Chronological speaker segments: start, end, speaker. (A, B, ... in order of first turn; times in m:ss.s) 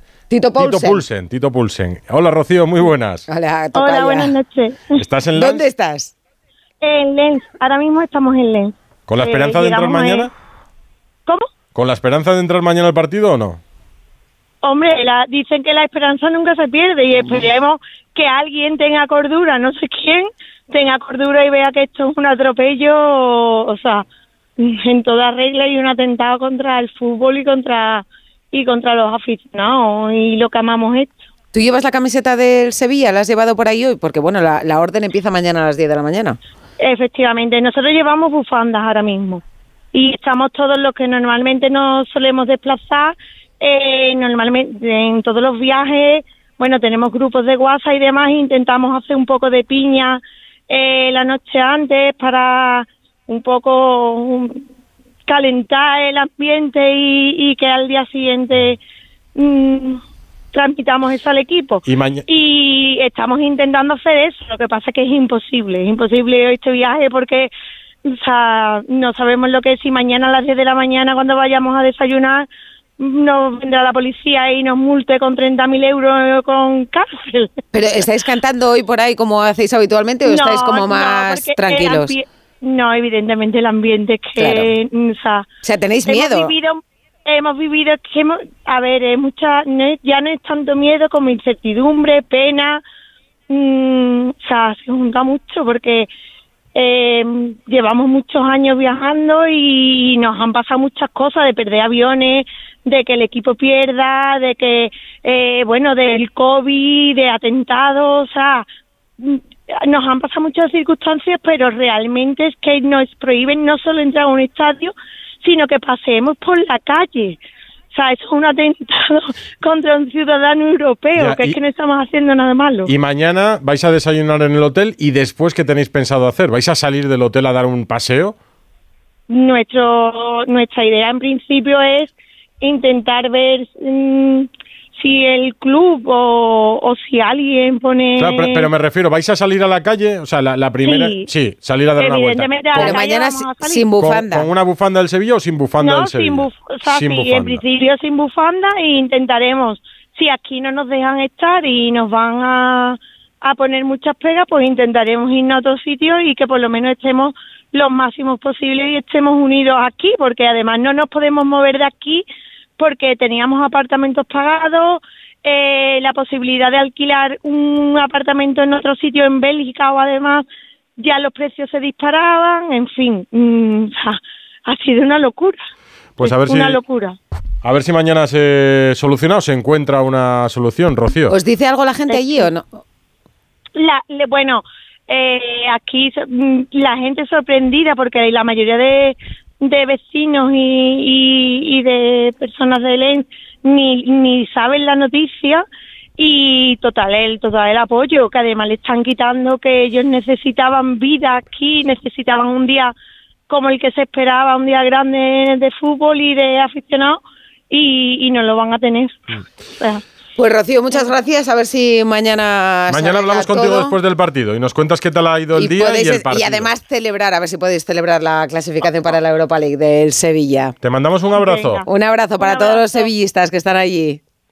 0:00.3-0:01.0 A
0:00.6-0:03.3 B
0:03.3-0:04.3 A
0:03.8-0:05.0 C
0:05.0-0:05.6 B
0:05.4-0:06.1 A
0:06.8-0:10.3 C
0:09.1-0:10.3 B
0:11.7-0:13.6 B
0:14.6-0:24.0 C
0:24.6-0:31.2 C
0:31.5-0:36.4 A
0:36.8-0:39.4 C
0:39.9-0:54.6 C
0:55.3-0:58.8 C
0:59.4-1:00.0 C
1:00.5-1:07.5 C
1:01.9-1:02.2 B
1:08.0-1:12.5 C
1:13.0-1:17.6 C
1:17.7-1:22.2 A
1:20.2-1:25.4 C
1:24.4-1:24.7 A
1:25.6-1:26.5 A
1:26.0-1:32.8 C
1:33.5-1:36.1 C
1:36.8-1:48.6 C
1:49.2-1:57.4 C
1:57.9-2:02.9 C
2:01.2-2:01.6 B
2:02.9-2:08.4 B
2:09.3-2:18.7 C
2:18.2-2:23.0 B
2:20.8-2:21.3 C
2:22.0-2:23.8 C
2:22.8-2:24.5 A
2:24.0-2:27.6 B
2:25.8-2:42.2 C
2:42.8-2:50.4 C
2:51.0-2:55.6 C
2:56.2-2:56.8 B
2:56.2-2:57.2 C
2:57.6-3:01.4 B
3:01.3-3:02.7 A
3:02.1-3:02.5 C
3:03.8-3:15.6 C
3:16.2-3:22.9 C
3:23.5-3:30.0 C
3:30.4-3:34.0 A
3:32.9-3:36.7 B
3:35.6-3:40.8 A
3:40.8-3:41.9 B
3:41.3-3:41.9 C
3:41.9-3:44.2 A
3:42.4-3:43.1 C